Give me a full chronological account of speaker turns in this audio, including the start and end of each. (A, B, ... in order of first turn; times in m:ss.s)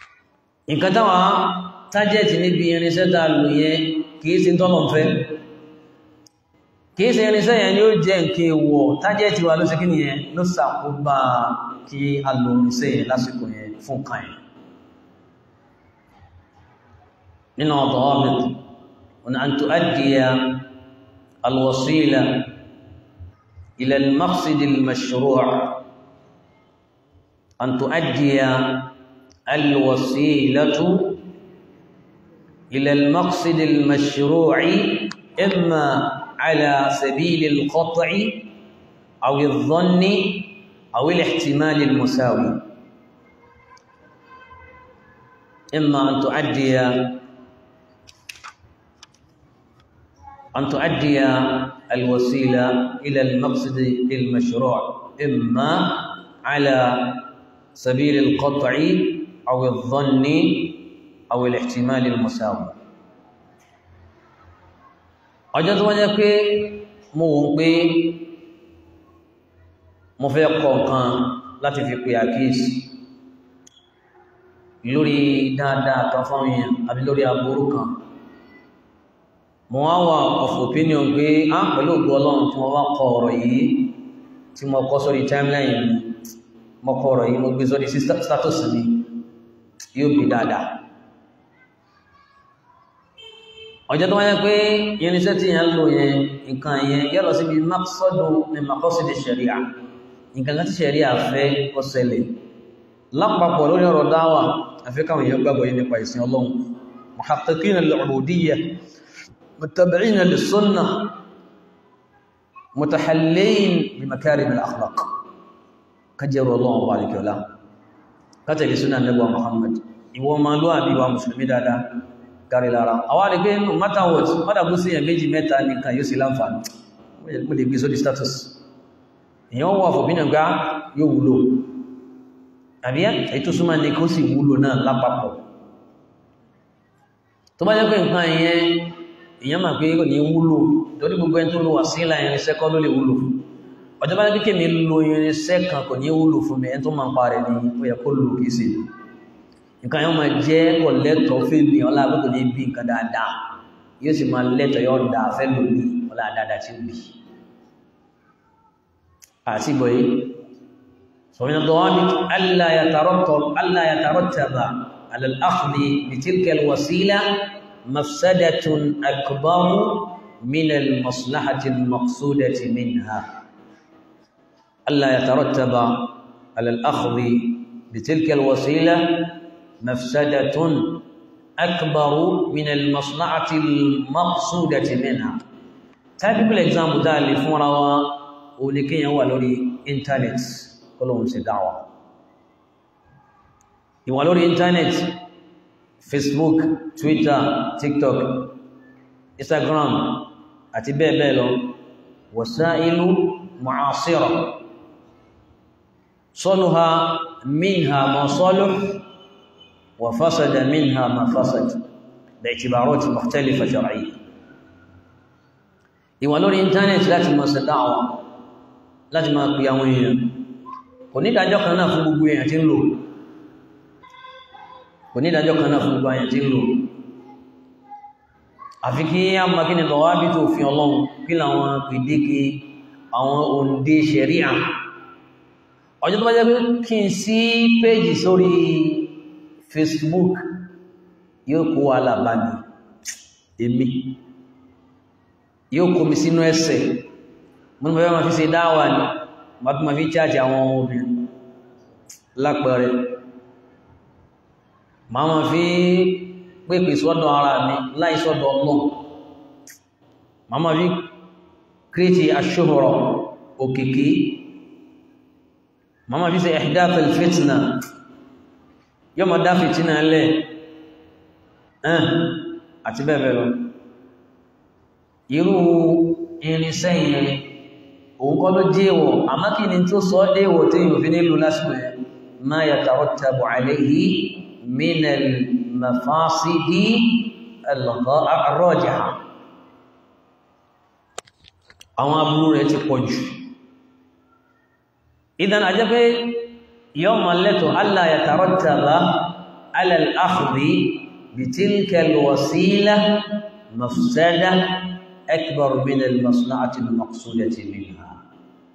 0:00.7-0:05.4 A
0:07.0-0:14.4 A
0:17.6-0:18.6 A
0:19.2-0:20.7 A
0:21.4-0:22.5 A
0:23.8-0:25.8 A
0:27.6-0:28.9 A
0:29.5-0:31.2 A
0:32.7-0:38.5 A
0:39.2-0:42.6 A
0:45.7-0:47.2 A
0:50.5-1:02.8 A
1:05.5-1:08.3 A
1:10.2-1:13.0 A
1:14.8-1:18.0 A
1:19.7-1:24.0 A
1:24.5-1:26.2 A
1:26.8-1:29.1 A
1:29.9-1:30.8 A
1:33.9-1:39.7 A
1:40.3-1:42.4 A
1:43.1-1:48.8 A
1:49.6-1:51.2 A
1:52.7-1:55.1 A
1:56.2-1:57.4 A
1:58.4-2:06.6 A
2:07.2-2:08.6 A
2:09.5-2:11.8 A
2:12.8-2:15.4 A
2:17.6-2:23.4 A
2:24.0-2:28.9 A
2:29.8-2:33.5 A
2:34.0-2:37.2 A
2:39.4-2:40.4 A
2:41.3-2:53.3 A
2:54.9-3:01.0 A
3:01.6-3:05.4 A
3:06.2-3:11.9 A
3:14.0-3:15.2 A
3:16.0-3:18.6 A
3:19.4-3:21.8 A
3:22.3-3:24.6 A
3:26.3-3:29.0 A
3:30.0-3:31.8 A
3:32.4-3:34.2 A
3:36.2-3:38.2 A
3:39.1-3:40.4 A
3:41.1-3:43.1 A
3:45.1-3:46.9 A
3:48.8-3:54.7 A
3:56.0-4:00.6 A
4:01.4-4:02.6 A
4:03.6-4:04.2 A
4:05.7-4:07.1 A
4:07.8-4:11.3 A
4:12.3-4:13.1 A
4:15.1-4:19.0 A
4:20.5-4:21.1 A
4:21.9-4:24.5 A
4:26.1-4:27.8 A
4:29.2-4:30.5 A
4:31.8-4:33.7 A
4:35.3-4:37.6 A
4:38.2-4:49.2 A
4:52.0-4:53.5 A
4:55.4-5:08.2 A